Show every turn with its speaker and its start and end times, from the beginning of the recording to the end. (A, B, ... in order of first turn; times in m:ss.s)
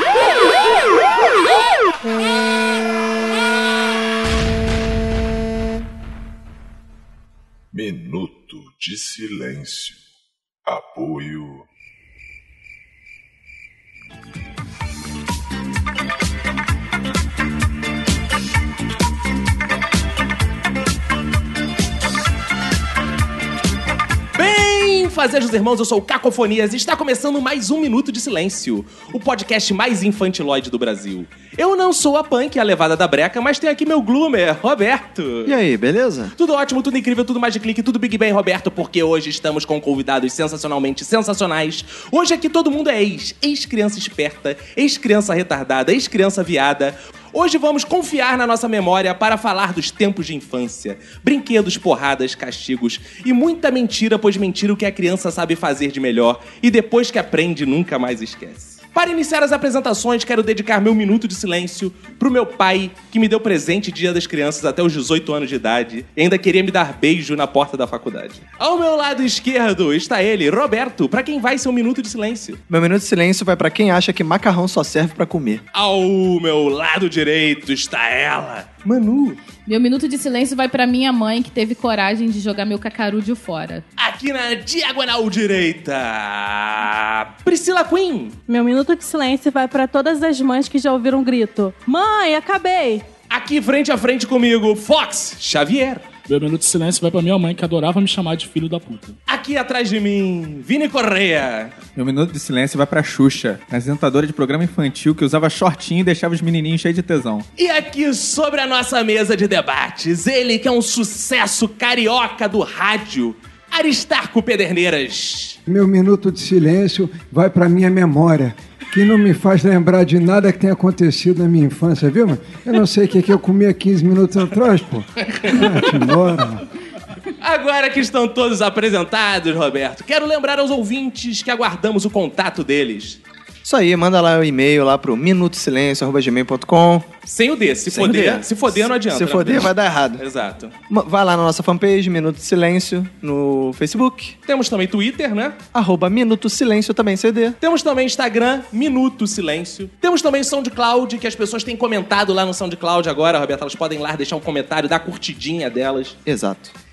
0:07.7-0:10.0 A
0:10.7-0:11.7 A
0:24.4-0:35.5 B
0:35.5-0:36.3 C
0:36.4-1:12.6 B
1:12.7-1:15.6 C
1:15.7-1:19.4 B
1:19.7-1:23.8 D
1:24.0-1:28.4 B
1:28.5-1:33.1 E
1:33.3-1:36.1 B
1:36.3-1:39.2 F
1:39.3-1:41.8 B
1:42.0-1:47.4 G
1:47.6-1:55.6 B
1:55.7-2:06.6 H
2:05.3-2:05.7 B
2:07.4-2:13.2 B
2:13.6-2:17.1 C
2:17.3-2:20.7 B
2:17.9-2:20.2 C
2:20.9-2:24.4 C
2:24.5-2:25.6 B
2:25.7-2:27.6 C
2:27.6-2:36.2 B
2:36.3-2:36.7 C